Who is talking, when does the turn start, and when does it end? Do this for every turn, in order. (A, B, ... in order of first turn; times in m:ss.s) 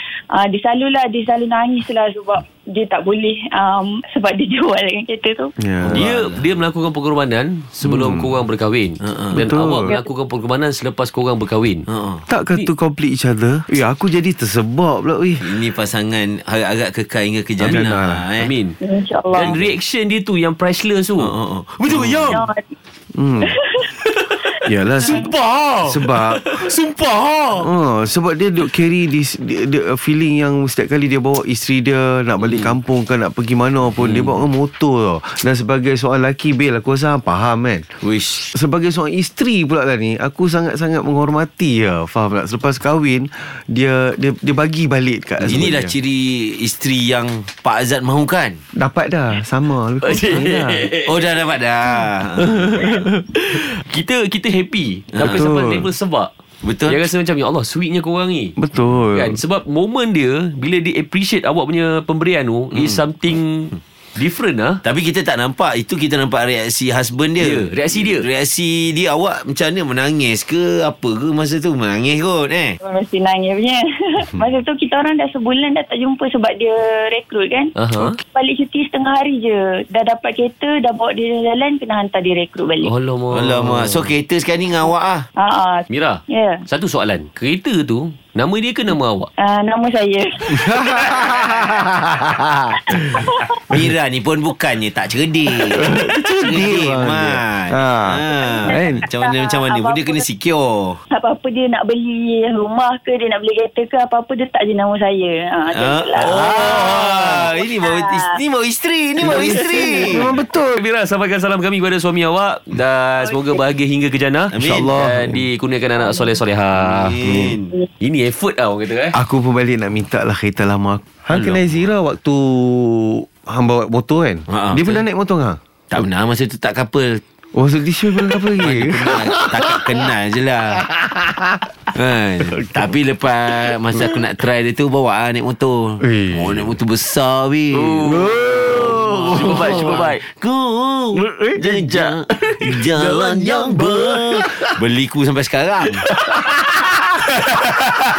0:00.4-0:05.5 A
0:05.6-0:06.1 B
0:05.8-0:06.4 C
0:05.9-0:11.8 D
0:07.8-0:08.4 B
0:09.0-0:09.4 C
0:09.3-0:10.0 B
0:11.9-0:12.2 C
0:12.3-0:15.7 B
0:15.4-0:18.5 C
0:17.6-0:18.3 B
0:17.6-0:18.8 D
0:18.8-0:19.6 A
0:19.3-0:22.4 D
0:19.4-0:19.7 C
0:21.2-0:22.4 C
0:22.3-0:22.7 A
0:23.1-0:23.6 B
0:23.5-0:23.9 A
0:24.2-0:24.5 D
0:24.6-0:25.3 B
0:25.0-0:27.7 D
0:25.8-0:26.6 B
0:27.6-0:37.9 B
0:38.0-0:38.5 C
0:38.5-0:45.9 B
0:45.4-0:48.6 C
0:48.7-0:50.9 B
0:50.0-0:51.2 D
0:51.0-0:52.9 C
0:52.4-0:56.3 D
0:55.1-0:55.4 C
0:55.2-0:55.9 B
0:56.6-0:57.0 C
0:56.8-0:58.6 D
0:58.6-0:59.4 B
0:59.1-1:04.8 D
1:04.8-1:12.8 C
1:07.4-1:08.3 D
1:12.8-1:17.7 A
1:17.8-1:18.2 D
1:18.3-1:22.9 A
1:22.8-1:24.1 D
1:23.3-1:25.3 C
1:25.4-1:26.6 A
1:25.9-1:29.3 D
1:29.4-1:30.7 A
1:30.5-1:33.9 B
1:32.9-1:33.5 A
1:33.7-1:41.0 C
1:35.7-1:39.0 B
1:38.4-1:40.2 A
1:41.1-1:48.3 A
1:45.7-1:50.3 C
1:49.2-1:50.8 B
1:50.7-1:57.2 D
1:54.5-1:55.0 C
1:54.6-1:55.4 B
1:56.7-1:57.8 C
1:57.2-1:57.6 B
1:58.0-1:59.2 D
1:59.1-2:05.6 B
2:01.3-2:01.6 D
2:04.5-2:05.0 C
2:05.9-2:07.2 C
2:07.5-2:10.1 B
2:08.6-2:10.8 C
2:10.8-2:11.6 B
2:11.9-2:26.0 C
2:12.5-2:12.7 B
2:16.0-2:16.7 B
2:17.7-2:20.2 D
2:18.0-2:20.1 B
2:21.1-2:24.1 D
2:26.4-2:26.9 B